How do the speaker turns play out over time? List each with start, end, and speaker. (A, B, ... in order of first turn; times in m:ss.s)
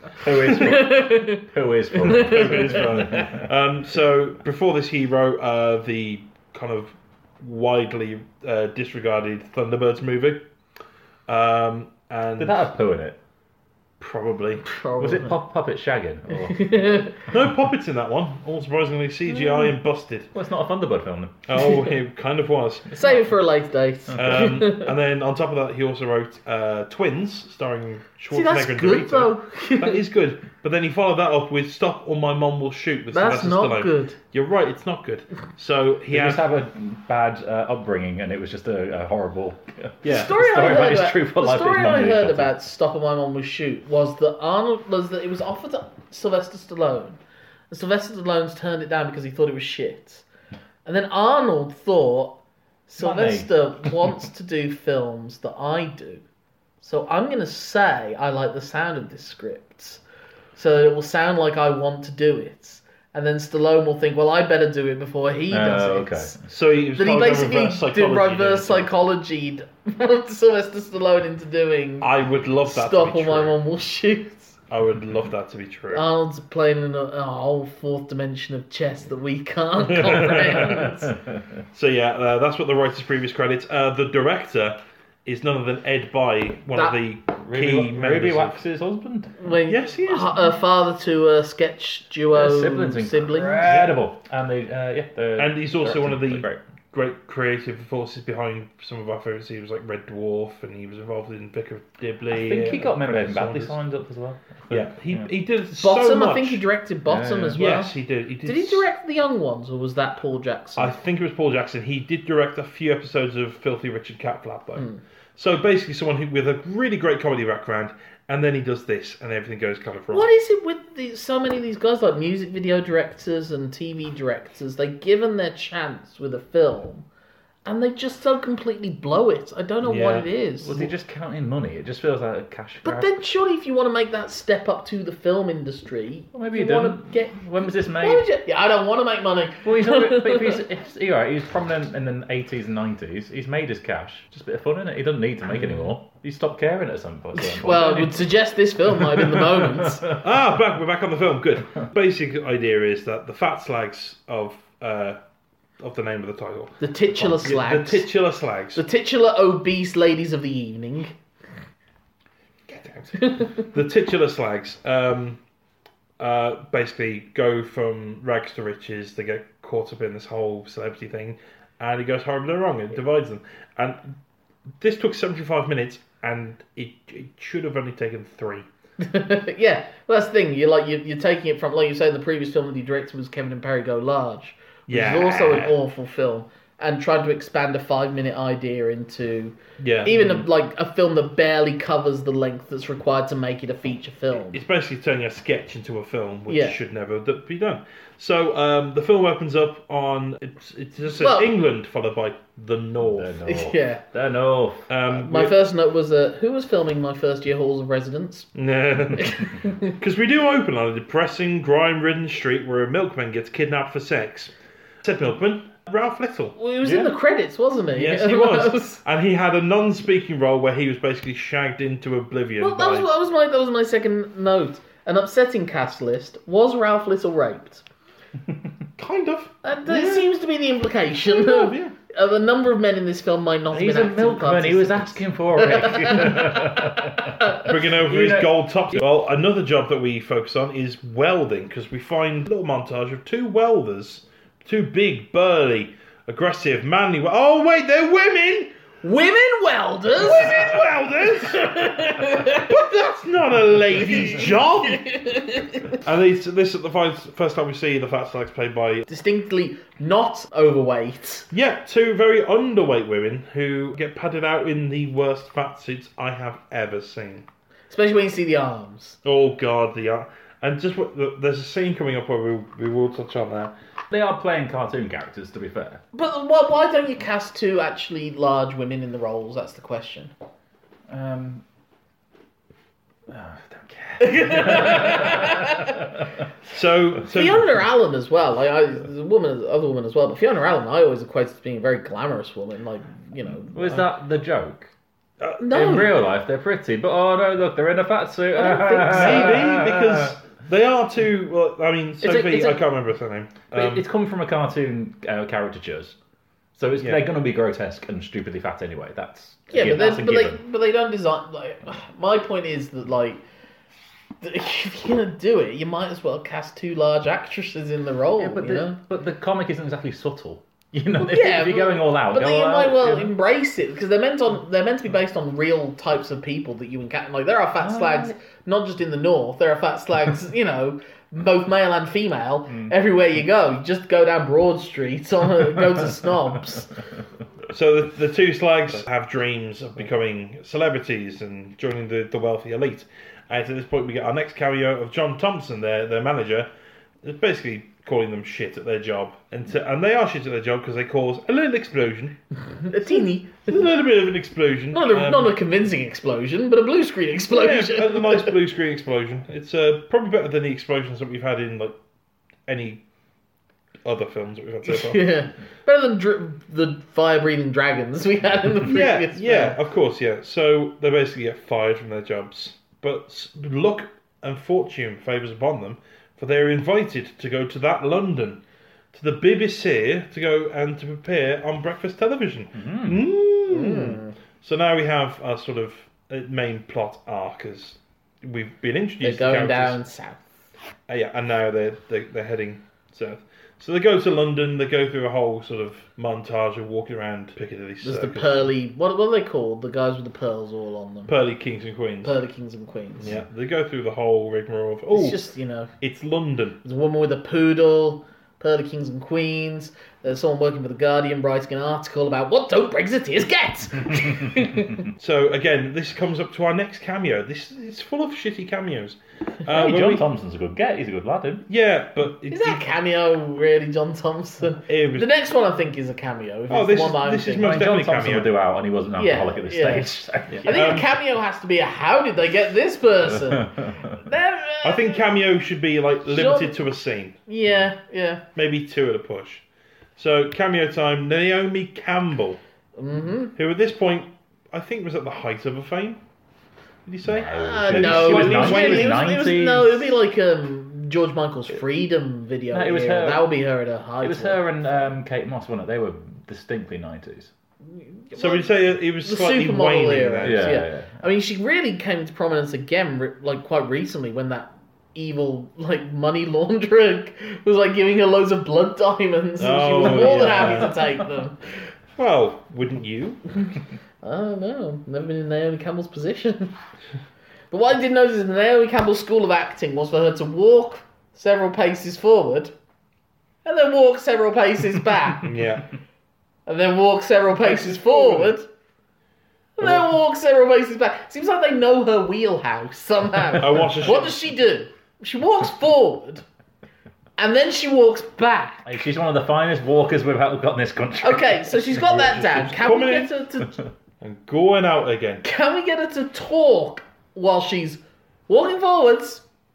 0:00.2-0:03.5 A
0:00.2-0:00.8 B
0:00.4-0:03.3 C
0:02.0-0:10.4 B
0:11.3-0:12.7 B
0:12.4-0:13.2 A
0:14.0-0:14.6 B
0:14.6-0:15.4 C
0:15.0-0:17.1 A
0:16.3-0:17.2 C
0:17.3-0:20.3 B
0:19.3-0:19.6 C
0:20.3-0:21.4 A
0:21.5-0:22.9 B
0:22.9-0:23.2 A
0:23.0-0:24.9 C
0:24.1-0:24.6 A
0:24.2-0:36.4 B
0:28.3-0:30.0 C
0:33.1-0:34.2 C
0:36.1-0:42.5 A
0:40.0-0:40.8 B
0:40.0-0:50.2 C
0:50.8-0:56.2 C
0:53.0-0:54.0 A
0:56.8-1:00.0 C
1:00.5-1:06.3 C
1:05.5-1:06.4 A
1:06.4-1:08.9 B
1:06.9-1:12.1 C
1:12.0-1:13.6 B
1:12.7-1:14.6 C
1:14.7-1:16.0 B
1:15.9-1:21.1 C
1:19.8-1:20.8 B
1:21.7-1:28.6 B
1:26.7-1:27.0 C
1:27.4-1:29.5 A
1:29.4-1:33.7 C
1:29.7-1:30.6 B
1:32.3-1:36.6 A
1:33.6-1:34.0 B
1:35.4-1:43.8 B
1:42.3-1:45.3 A
1:44.7-1:46.6 B
1:45.8-1:51.0 C
1:47.0-1:47.8 A
1:47.5-1:48.8 B
1:50.8-2:00.3 B
2:00.1-2:07.1 C
2:07.6-2:10.8 C
2:09.8-2:10.3 B
2:10.6-2:13.1 A
2:12.8-2:20.6 C
2:16.3-2:18.3 A
2:19.6-2:30.2 A
2:27.4-2:30.0 C
2:30.2-2:35.2 B
2:35.8-2:38.8 B
2:36.8-2:38.1 C
2:38.7-2:41.1 C
2:42.7-2:45.4 B
2:46.2-2:54.2 B
2:54.8-2:58.7 B
2:59.0-3:14.6 C
3:04.9-3:05.8 B
3:09.8-3:10.4 B
3:14.4-3:23.4 B
3:16.5-3:16.8 C
3:21.2-3:21.5 C
3:23.0-3:24.9 A
3:23.5-3:24.0 C
3:24.9-3:25.5 B
3:25.1-3:28.5 C
3:28.5-3:37.1 B
3:29.2-3:29.9 C
3:36.6-3:39.0 C
3:37.9-3:43.1 B
3:42.6-3:47.8 C
3:49.0-3:50.3 B
3:49.6-3:57.7 C
3:51.3-3:51.9 B
3:53.7-3:59.0 A
3:57.6-4:08.7 B
4:09.0-4:12.7 C
4:10.2-4:15.2 B
4:13.9-4:16.0 C
4:15.9-4:19.0 B
4:19.1-4:21.4 C
4:21.5-4:27.5 B
4:27.9-4:29.2 C
4:29.2-4:33.7 B
4:34.1-4:36.0 A
4:36.1-4:40.3 C
4:41.1-4:41.6 A
4:43.3-4:46.1 A
4:44.2-4:46.1 C
4:46.7-4:47.7 B
4:47.3-4:53.9 C
4:53.7-4:54.9 A
4:55.6-4:56.1 C
4:55.7-5:00.3 A
4:58.5-4:59.7 C
4:59.1-5:04.0 B
5:02.2-5:02.9 A
5:03.7-5:06.2 A
5:06.7-5:10.6 A
5:07.0-5:07.2 B
5:09.7-5:13.4 C
5:14.4-5:19.0 C
5:18.4-5:23.3 A
5:21.2-5:36.9 C
5:27.8-5:28.4 A
5:32.7-5:32.9 A
5:37.7-5:46.7 B
5:47.2-5:52.4 B
5:52.8-5:53.8 C
5:53.1-5:55.5 B
5:54.9-5:58.5 C
5:57.5-6:02.0 B
6:02.6-6:03.0 B
6:04.0-6:05.4 B
6:04.8-6:09.8 C
6:08.9-6:18.6 B
6:19.1-6:30.0 B
6:22.7-6:23.3 A
6:23.7-6:24.3 C
6:29.2-6:30.4 C
6:31.1-6:38.7 B
6:38.0-6:41.3 C
6:41.3-6:42.4 B
6:42.2-6:43.4 C
6:43.2-6:45.5 B
6:45.1-6:45.9 C
6:46.0-6:46.8 B
6:46.8-6:55.0 C
6:55.2-7:00.2 B
6:59.7-7:01.7 A
7:01.7-7:02.8 B
7:02.5-7:07.8 C
7:04.9-7:05.3 B
7:06.7-7:08.5 B
7:07.6-7:10.9 A
7:09.2-7:15.2 C
7:10.5-7:11.1 B
7:13.3-7:14.1 A
7:14.8-7:17.4 B
7:16.3-7:16.8 C
7:17.5-7:18.4 C
7:18.6-7:19.6 B
7:20.2-7:22.6 B
7:23.0-7:23.5 C
7:23.6-7:26.2 B
7:27.0-7:29.3 B
7:27.2-7:30.2 A
7:27.5-7:35.1 C
7:32.7-7:33.6 A
7:34.2-7:37.5 A
7:37.9-7:38.7 C
7:38.4-7:40.7 B
7:39.2-7:51.6 C
7:40.4-7:41.2 A
7:49.6-7:51.0 B
7:50.0-7:51.0 A
7:52.2-7:53.6 B
7:54.2-7:56.7 C
7:57.7-8:02.7 C
8:03.6-8:05.5 C
8:05.4-8:05.8 B
8:06.6-8:08.7 C
8:07.6-8:08.5 B
8:09.8-8:16.4 C
8:09.8-8:10.1 B
8:13.6-8:14.4 B
8:17.4-8:18.8 C
8:18.8-8:21.8 A
8:21.2-8:23.8 C
8:22.0-8:23.3 B
8:24.2-8:25.4 B
8:25.4-8:29.4 C